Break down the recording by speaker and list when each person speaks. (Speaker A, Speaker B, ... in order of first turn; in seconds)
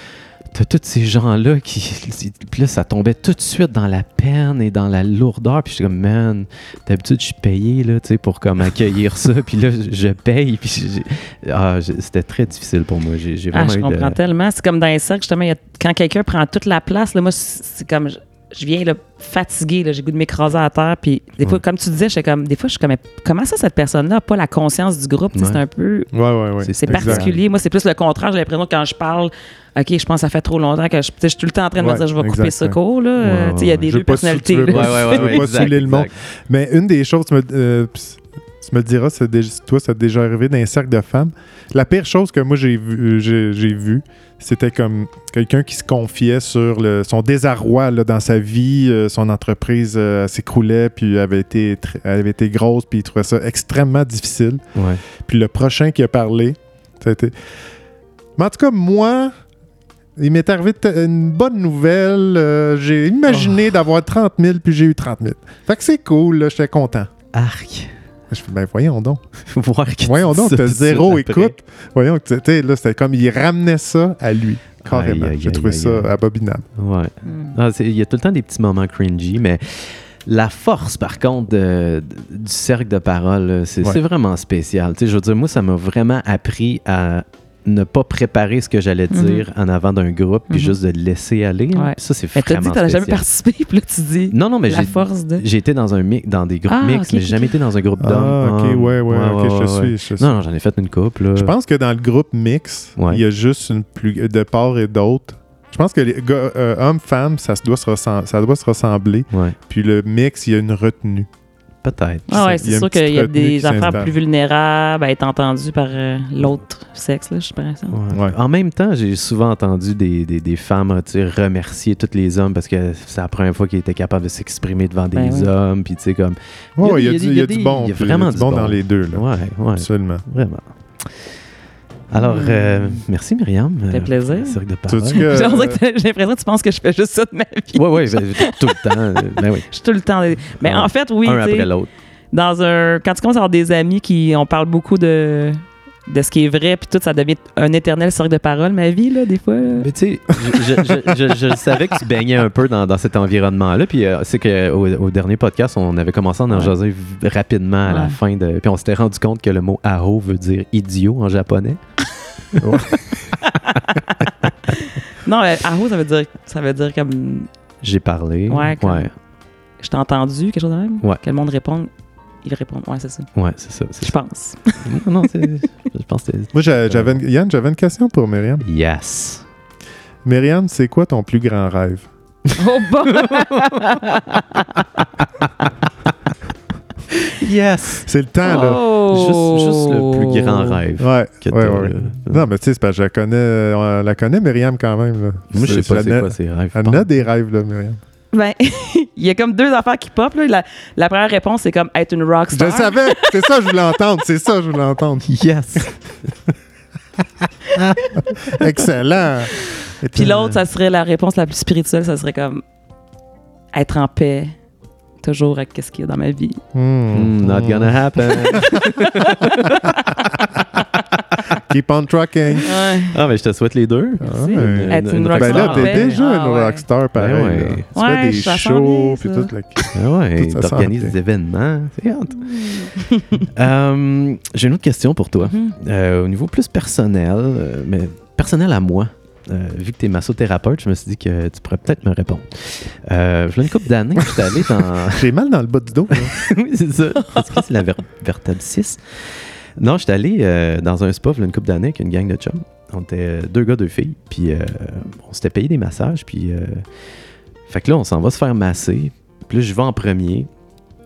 Speaker A: 0.5-14.2, 25.3-25.6, 26.6-27.4, 33.2-33.8, 34.7-36.1, 54.7-55.0, 63.3-63.7, 67.3-67.9, 69.4-71.5, 74.8-76.1, 76.8-93.2, 94.3-101.5, 103.0-103.2, 109.3-109.5, 111.8-112.3, 113.8-114.1, 117.9-131.3, 132.1-135.4, 137.7-139.7, 140.6-141.9, 149.7-161.8, 162.5-162.8, 167.8-169.1, 173.3-174.1, 174.8-177.2, 178.6-179.4, 183.1-184.0, 187.2-188.1, 188.9-192.5, 195.5-197.1, 205.2-205.9, 210.2-210.6, 217.1-220.1, 220.8-221.6, 223.1-226.2, 227.2-227.8, 229.9-245.3, 246.1-249.0, 249.8-256.8, 257.7-260.5
Speaker B: 13.5-26.1, 26.8-35.5, 77.2-77.5, 89.1-89.5, 90.5-90.8, 91.7-95.4, 96.7-97.5, 112.3-118.0, 125.1-125.5, 132.2-133.0, 133.9-134.6, 135.1-141.7, 142.3-149.9, 156.5-156.7, 157.9-158.2, 163.4-167.5, 168.5-169.1, 169.8-171.9, 172.4-173.3, 174.0-175.5, 182.6-185.0, 188.4-190.8, 198.3-203.6, 208.0-208.2, 210.1-212.6, 213.7-214.5, 215.2-216.6, 218.3-220.3, 222.6-223.2, 224.2-226.8, 227.9-229.5, 232.6-233.4, 235.4-235.7
Speaker C: 26.1-27.3, 31.8-32.8, 33.8-54.6, 55.2-57.3, 58.4-59.3, 60.2-67.1, 68.3-69.2, 70.0-76.7, 98.0-100.3, 101.3-111.3, 112.3-114.1, 126.8-129.2, 129.8-130.2, 134.9-135.8, 162.6-163.1, 176.5-178.6, 180.2-182.1, 188.1-188.9, 191.0-198.0, 202.5-205.3, 207.4-210.3, 216.7-218.0, 221.6-222.7, 224.2-231.1, 244.3-246.4